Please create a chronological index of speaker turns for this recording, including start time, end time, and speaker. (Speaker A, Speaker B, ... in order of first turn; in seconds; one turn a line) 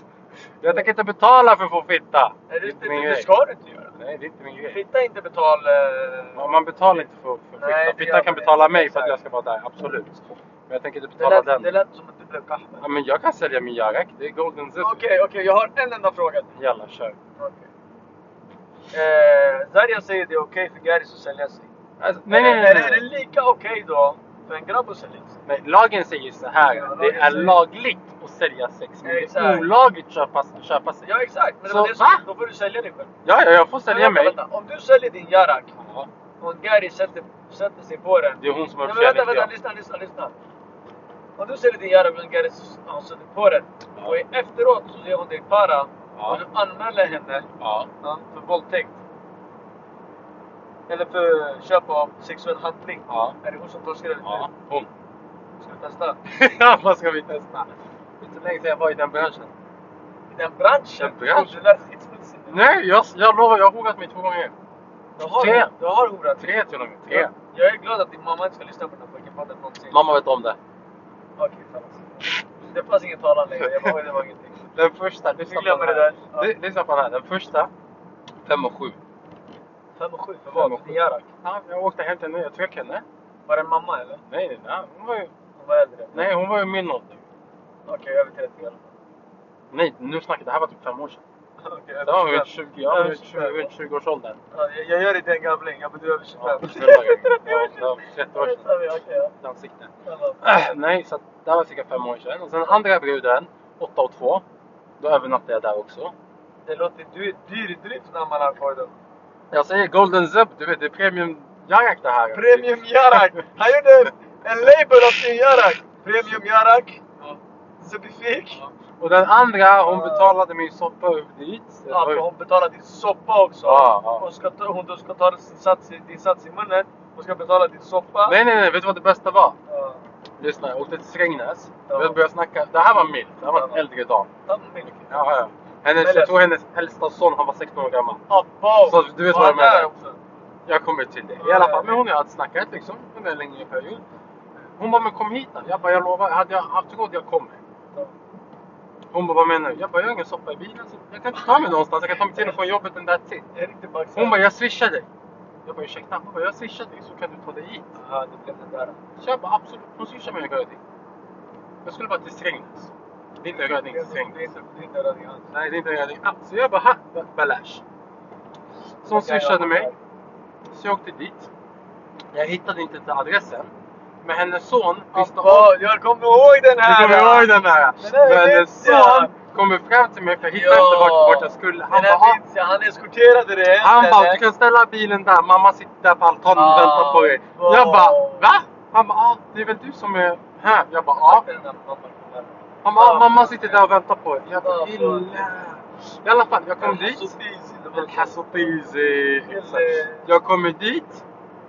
Speaker A: 0.6-3.3
Speaker B: 2.5-3.9
Speaker A: 4.0-4.8
Speaker B: 4.6-7.0
Speaker A: 6.3-11.8
Speaker B: 7.6-9.2
Speaker B: 11.2-12.8
Speaker A: 12.8-15.0
Speaker B: 14.8-16.5
Speaker A: 16.6-17.1
Speaker B: 17.4-17.7
Speaker B: 18.9-21.7
Speaker A: 22.0-23.1
Speaker B: 22.3-25.4
Speaker A: 25.4-31.1
Speaker B: 26.6-27.6
Speaker B: 29.0-29.7
Speaker B: 31.0-33.1
Speaker A: 31.6-32.2
Speaker A: 33.2-34.4
Speaker B: 33.9-35.8
Speaker A: 35.8-36.1
Speaker B: 36.4-40.3
Speaker A: 38.4-39.5
Speaker B: 41.4-47.5
Speaker A: 46.1-46.4
Speaker A: 47.6-47.9
Speaker B: 48.0-49.0
Speaker B: 50.9-54.5
Speaker A: 53.1-53.4
Speaker A: 54.2-54.9
Speaker B: 55.6-56.2
Speaker A: 56.2-57.7
Speaker A: 58.2-59.5
Speaker B: 60.3-62.6
Speaker A: 61.0-61.6
Speaker A: 62.5-64.5
Speaker B: 65.2-66.5
Speaker A: 65.3-65.7
Speaker A: 66.4-67.3
Speaker B: 67.1-70.0
Speaker A: 69.9-70.6
Speaker B: 71.4-74.6
Speaker A: 73.7-73.9
Speaker A: 74.7-77.7
Speaker B: 75.4-76.5
Speaker A: 78.5-79.0
Speaker B: 80.0-81.3
Speaker A: 80.5-83.0
Speaker B: 83.5-84.2
Speaker A: 84.3-85.3
Speaker B: 85.6-86.2
Speaker A: 86.1-87.2
Speaker B: 87.9-88.9
Speaker A: 89.7-91.2
Speaker B: 91.6-93.7
Speaker A: 92.0-94.4
Speaker B: 94.5-99.3
Speaker A: 96.4-98.8
Speaker A: 99.4-99.9
Speaker B: 100.0-100.6
Speaker A: 100.4-104.4
Speaker A: 105.0-106.1
Speaker B: 106.7-108.9
Speaker A: 109.5-113.2
Speaker B: 112.3-118.7
Speaker A: 118.5-122.2
Speaker B: 119.8-120.3
Speaker B: 121.9-128.4
Speaker A: 123.7-124.2
Speaker A: 128.2-129.6
Speaker B: 129.7-130.0
Speaker A: 130.4-134.3
Speaker B: 131.9-132.2
Speaker B: 133.4-133.8
Speaker B: 134.5-134.9
Speaker A: 134.8-138.2
Speaker B: 135.9-136.3
Speaker B: 138.3-140.2
Speaker A: 138.8-139.9
Speaker A: 140.7-144.0
Speaker B: 141.4-142.0
Speaker A: 144.8-147.6
Speaker A: 149.1-153.4
Speaker B: 153.5-154.4
Speaker A: 154.2-155.1
Speaker A: 155.6-157.9
Speaker B: 158.0-159.0
Speaker A: 159.2-160.8
Speaker A: 161.8-164.4
Speaker B: 163.5-165.5
Speaker A: 165.5-167.8
Speaker A: 169.0-169.9
Speaker B: 169.1-169.9
Speaker A: 170.7-171.5
Speaker A: 172.3-173.7
Speaker A: 174.2-175.7
Speaker B: 175.1-179.4
Speaker A: 176.8-182.4
Speaker B: 180.4-184.4
Speaker A: 183.8-191.4
Speaker B: 186.5-188.5
Speaker B: 191.2-193.9
Speaker A: 192.8-197.3
Speaker B: 194.6-195.3
Speaker B: 196.8-198.8
Speaker A: 197.9-201.2
Speaker B: 199.5-200.3